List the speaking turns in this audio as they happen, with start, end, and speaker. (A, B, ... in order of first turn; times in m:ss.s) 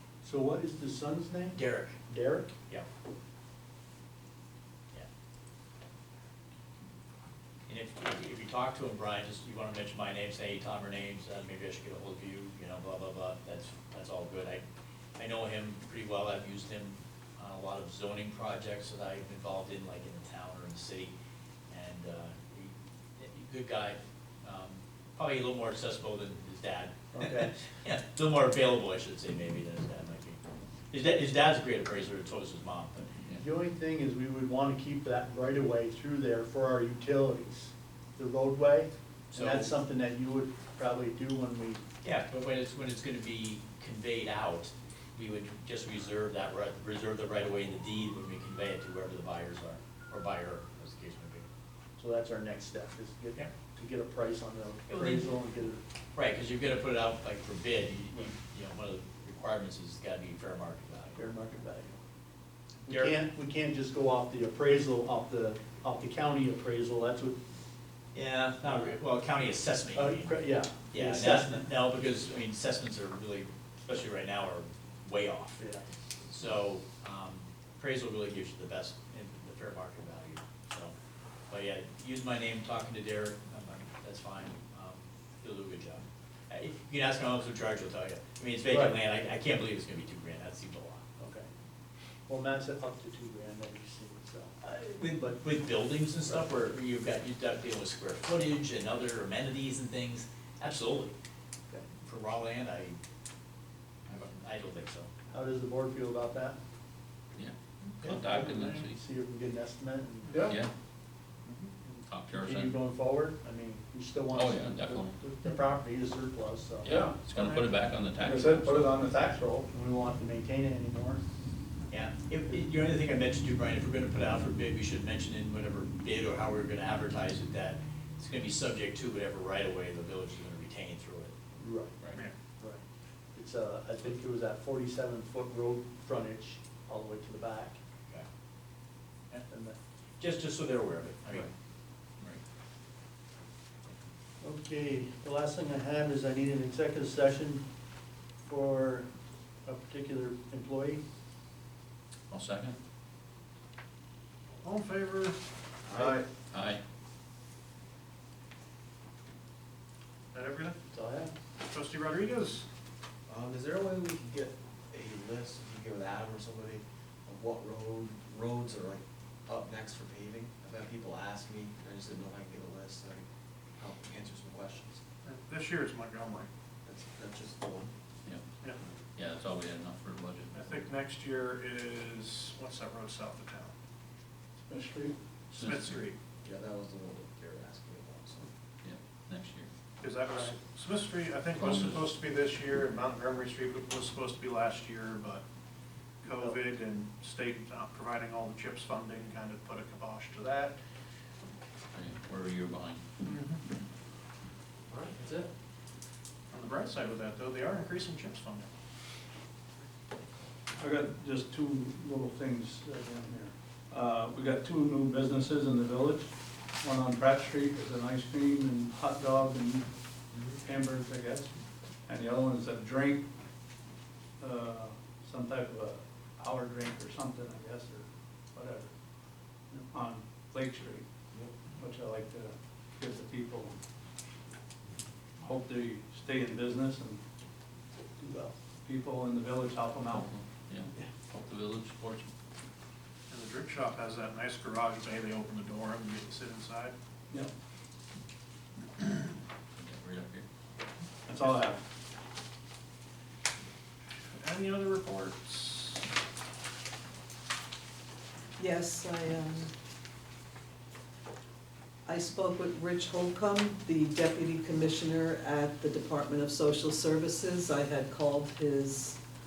0:00.2-0:02.5 A
0:01.5-0:02.0 B
0:07.7-0:14.6 B
0:15.2-0:21.1 B
0:21.7-0:30.4 B
0:27.1-0:27.6 A
0:30.9-0:33.1 B
0:33.4-0:41.8 A
0:39.3-0:39.7 B
0:42.0-0:51.5 B
0:52.0-0:55.8 A
0:54.9-0:55.2 B
0:56.1-1:01.2 B
1:01.2-1:02.0 A
1:02.8-1:03.1 B
1:02.9-1:07.4 A
1:08.1-1:15.6 B
1:08.7-1:08.9 A
1:09.9-1:11.6 A
1:15.6-1:15.8 A
1:16.3-1:20.9 B
1:21.5-1:31.0 B
1:28.6-1:29.0 A
1:31.2-1:31.5 A
1:32.3-1:35.4 A
1:34.8-1:41.1 B
1:42.0-1:43.0 B
1:44.1-1:45.1 B
1:45.3-1:46.6 A
1:47.4-1:49.0 C
1:48.0-1:50.6 A
1:50.4-1:50.7 C
1:51.8-1:57.0 A
1:52.0-1:52.8 C
1:54.3-1:55.2 C
1:56.8-1:59.0 C
1:56.8-1:57.2 D
1:57.4-1:57.6 E
1:58.2-1:59.7 D
1:59.7-2:01.2 A
2:01.9-2:11.3 B
2:11.6-2:12.8 A
2:13.3-2:17.8 A
2:19.5-2:19.8 A
2:20.2-2:21.5 B
2:24.4-2:27.6 A
2:28.4-2:29.1 A
2:29.6-2:31.0 A
2:32.3-2:32.8 C
2:34.6-2:35.3 E
2:35.9-2:36.2 F
2:36.5-2:36.8 C
2:40.3-2:40.7 E
2:40.9-2:41.3 A
2:41.7-2:42.6 E
2:43.3-2:53.2 F
2:53.8-2:55.0 F
2:55.2-2:56.5 E
2:56.8-2:57.9 F
2:59.2-3:00.9 C
3:00.5-3:03.7 E
3:04.6-3:05.1 D
3:05.5-3:06.0 C
3:05.6-3:06.1 E
3:06.4-3:08.5 F
3:08.8-3:09.7 C
3:10.0-3:15.4 E
3:11.5-3:12.1 C
3:16.2-3:20.7 E
3:16.3-3:16.6 A
3:21.9-3:23.0 C
3:23.3-3:23.6 E
3:24.9-3:25.5 F
3:26.5-3:28.6 E
3:30.8-3:36.3 D
3:36.8-3:39.9 D
3:40.6-3:41.5 D
3:42.1-3:43.2 D
3:44.4-3:48.9 D
3:49.9-3:51.0 D
3:51.8-3:53.7 D
3:55.4-3:57.2 D
3:58.2-3:58.5 A
3:58.8-4:00.3 D
4:00.1-4:02.3 C
4:03.3-4:06.9 E
4:09.8-4:10.4 C
4:11.3-4:11.8 D
4:14.3-4:16.0 E
4:18.6-4:19.7 G
4:22.0-4:29.2 G